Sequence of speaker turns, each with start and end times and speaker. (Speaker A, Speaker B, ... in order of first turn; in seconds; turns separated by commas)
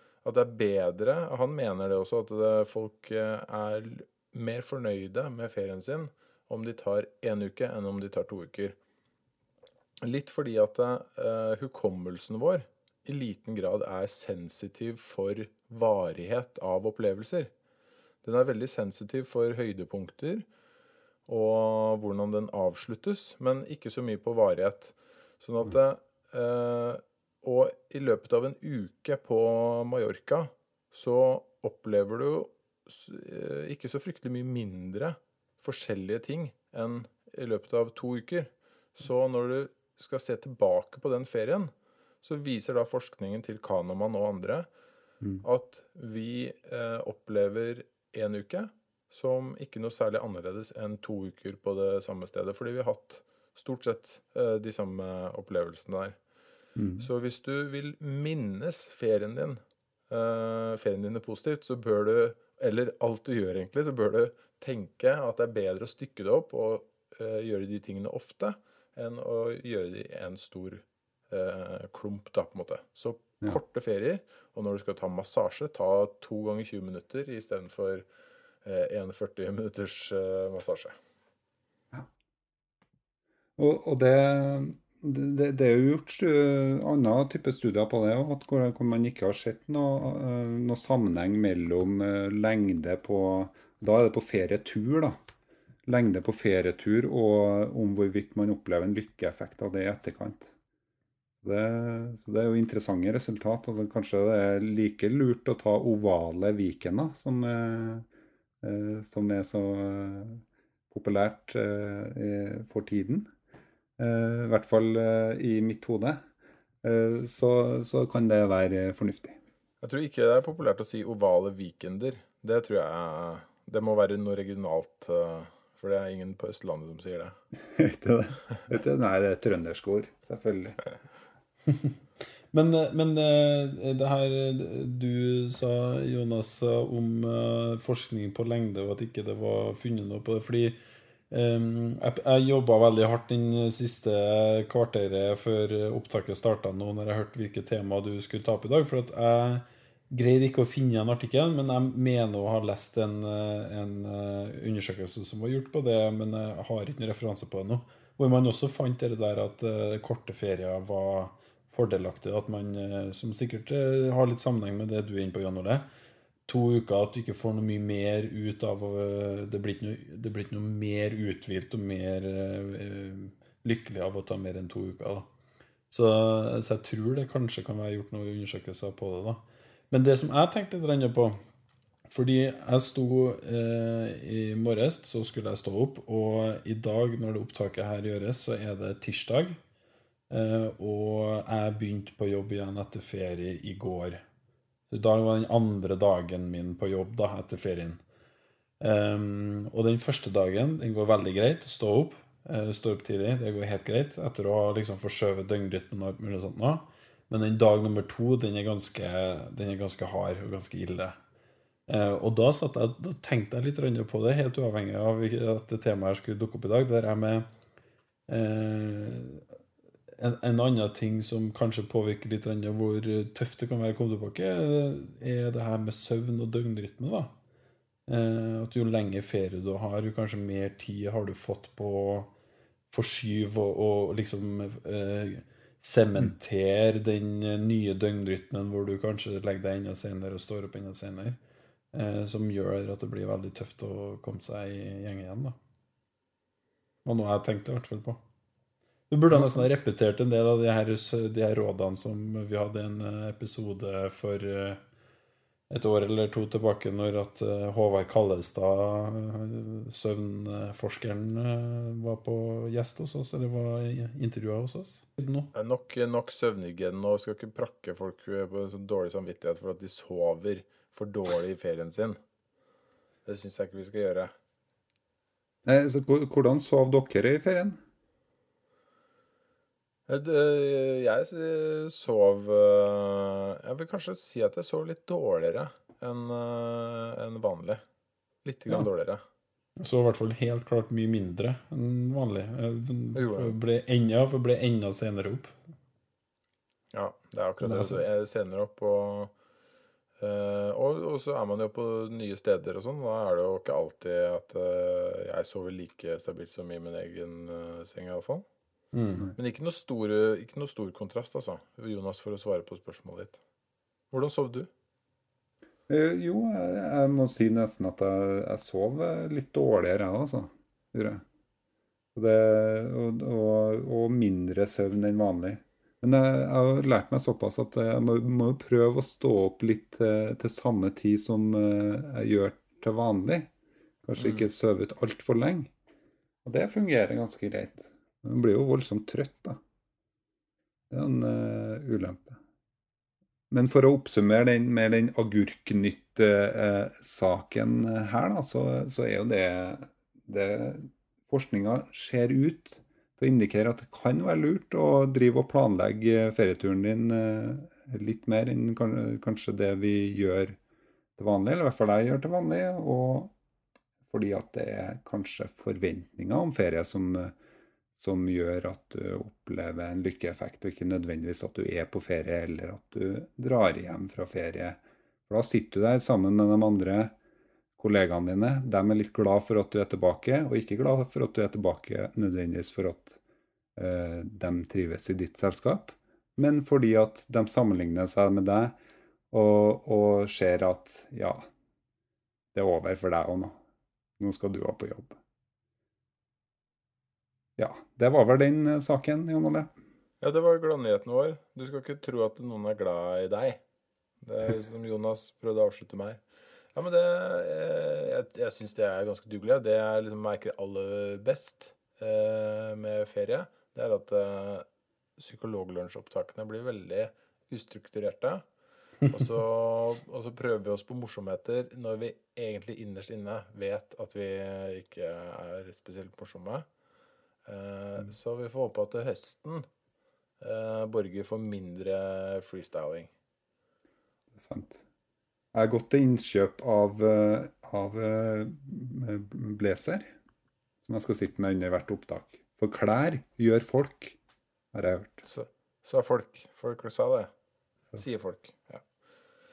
Speaker A: 0.2-8.7, Speaker A: 10.0-17.5, Speaker A: 18.2-20.4, Speaker A: 21.3-44.7, Speaker A: 45.4-56.2, Speaker B: 56.8-57.1, Speaker A: 57.0-78.0, Speaker A: 78.6-80.9, Speaker B: 83.6-95.2, Speaker B: 95.9-100.5, Speaker B: 101.4-108.1, Speaker B: 108.6-113.3, Speaker B: 114.0-116.2, Speaker B: 116.8-119.4, Speaker A: 119.8-127.4, Speaker B: 127.7-130.8, Speaker C: 131.7-131.9, Speaker C: 132.5-140.8, Speaker C: 141.3-165.9, Speaker C: 166.5-175.3, Speaker C: 175.9-181.4, Speaker C: 182.1-189.6, Speaker C: 190.3-194.2, Speaker C: 194.9-198.0, Speaker C: 198.8-211.2, Speaker C: 211.9-217.5, Speaker C: 218.3-219.4, Speaker C: 220.2-227.3, Speaker C: 228.1-232.3, Speaker C: 232.9-241.4, Speaker C: 241.9-245.6, Speaker C: 247.1-248.2, Speaker C: 249.1-254.8, Speaker B: 249.3-249.7, Speaker C: 255.7-265.5, Speaker A: 265.5-272.2, Speaker A: 273.2-274.3, Speaker B: 275.6-277.8, Speaker A: 280.1-287.8, Speaker A: 288.4-289.2, Speaker C: 289.8-295.6, Speaker A: 293.1-293.6, Speaker A: 296.9-299.3, Speaker C: 297.6-298.0, Speaker A: 300.2-308.4, Speaker C: 308.9-309.3, Speaker A: 309.4-313.4, Speaker A: 314.1-314.7, Speaker B: 315.9-321.2, Speaker B: 322.1-333.5, Speaker B: 334.0-335.7, Speaker A: 334.2-334.5, Speaker B: 336.4-339.6, Speaker B: 340.9-342.4, Speaker B: 343.5-360.6, Speaker B: 361.2-363.3, Speaker B: 364.1-367.3, Speaker B: 368.0-377.1, Speaker B: 377.8-383.2, Speaker B: 383.8-388.7, Speaker B: 389.3-391.4, Speaker B: 392.5-393.6, Speaker B: 394.2-395.1, Speaker B: 397.6-399.7, Speaker A: 400.2-403.6, Speaker A: 404.2-406.2, Speaker A: 406.7-414.6, Speaker A: 415.2-418.4, Speaker A: 419.1-426.6, Speaker A: 427.4-429.6, Speaker A: 430.4-433.1, Speaker B: 434.4-434.8, Speaker B: 435.5-440.1, Speaker B: 440.8-444.2, Speaker B: 444.7-445.2, Speaker A: 445.2-447.3, Speaker A: 447.9-448.8